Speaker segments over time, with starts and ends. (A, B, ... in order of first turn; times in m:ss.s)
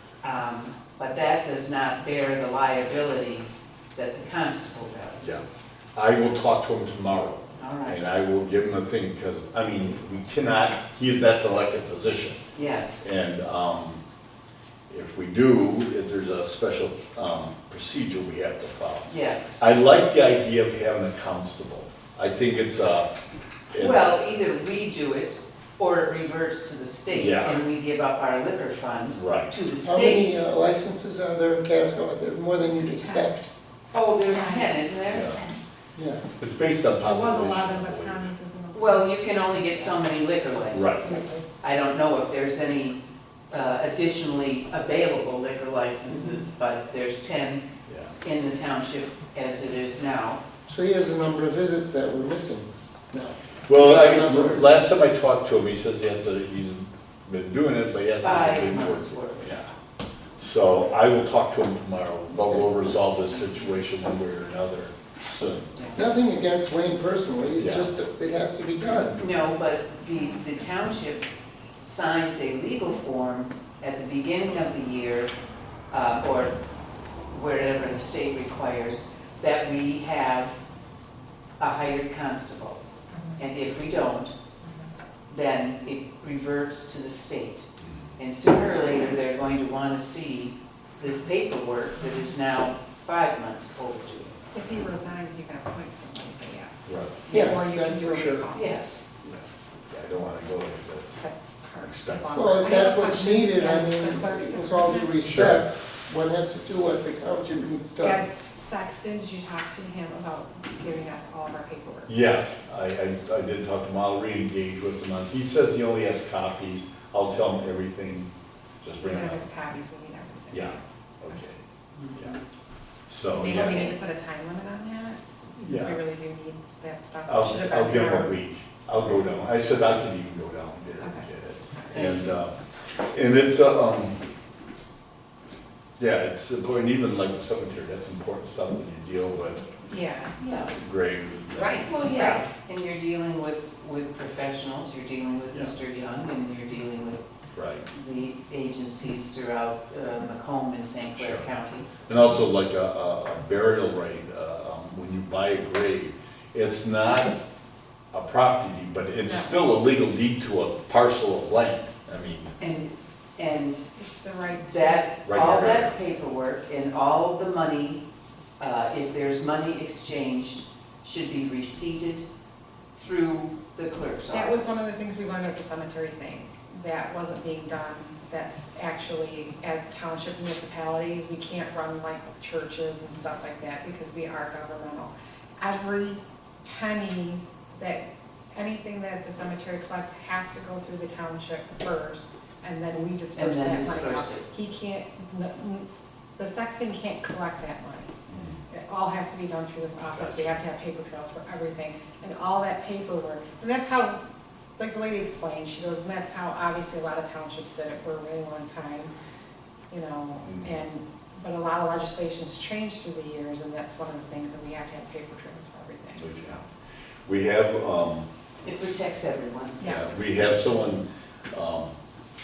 0:00.2-0:05.4 A
0:05.9-0:12.4 B
0:07.6-0:08.1 A
0:12.5-0:13.1 A
0:13.0-0:14.0 B
0:14.9-0:23.1 B
0:19.1-0:19.6 A
0:23.7-0:24.2 B
0:23.8-0:30.3 A
0:27.1-0:27.6 B
0:29.1-0:29.5 B
0:29.8-0:33.5 C
0:33.0-0:33.3 D
0:33.9-0:35.5 A
0:34.3-0:34.7 D
0:35.1-0:35.4 B
0:35.9-0:36.2 C
0:36.4-0:38.3 B
0:37.0-0:40.0 D
0:38.7-0:47.6 A
0:40.7-0:41.2 B
0:41.0-0:41.6 D
0:47.9-0:48.1 B
0:48.2-0:50.4 A
0:50.7-0:54.6 C
0:53.7-0:59.7 B
0:58.2-0:59.6 A
1:00.4-1:05.7 B
1:05.7-1:06.0 A
1:05.9-1:09.2 C
1:07.6-1:07.9 B
1:09.2-1:11.3 A
1:10.1-1:10.4 D
1:11.8-1:15.3 A
1:15.9-1:16.5 A
1:17.3-1:20.6 A
1:21.6-1:22.8 A
1:23.4-1:24.3 A
1:25.3-1:27.6 A
1:28.2-1:34.5 A
1:34.5-1:36.8 D
1:36.8-1:37.4 B
1:37.3-1:38.7 D
1:37.3-1:38.4 C
1:38.5-1:39.0 A
1:39.2-1:41.2 B
1:41.2-1:45.3 D
1:41.8-1:42.7 B
1:42.3-1:48.2 C
1:45.3-1:45.6 B
1:48.0-1:52.1 D
1:52.1-1:58.3 B
1:58.8-1:59.4 B
1:59.0-2:00.8 D
2:00.5-2:01.6 B
2:02.0-2:02.3 A
2:03.1-2:04.0 B
2:03.3-2:08.3 D
2:05.6-2:06.0 B
2:07.3-2:12.5 B
2:11.0-2:12.0 D
2:11.9-2:12.3 A
2:13.1-2:14.2 B
2:16.0-2:19.7 B
2:19.8-2:20.3 D
2:20.4-2:20.7 A
2:20.7-2:21.8 B
2:21.5-2:22.4 D
2:21.8-2:27.2 A
2:27.5-2:27.8 B
2:27.9-2:31.9 A
2:31.2-2:31.5 B
2:32.1-2:37.4 B
2:38.1-2:42.5 B
2:39.2-2:39.5 D
2:42.6-2:43.8 A
2:43.9-2:45.2 D
2:44.6-2:48.0 A
2:45.2-2:45.9 B
2:48.6-2:52.2 A
2:52.9-2:54.8 A
2:54.3-3:15.8 D
3:13.4-3:14.4 A
3:16.4-3:18.1 D
3:18.3-3:18.6 B
3:18.7-3:24.2 D
3:20.1-3:20.6 B
3:24.8-3:29.1 D
3:29.9-3:36.6 D
3:30.4-3:30.7 B
3:36.2-3:36.6 B
3:37.3-3:38.2 B
3:38.6-3:39.9 A
3:39.8-3:40.2 D
3:39.8-3:41.9 B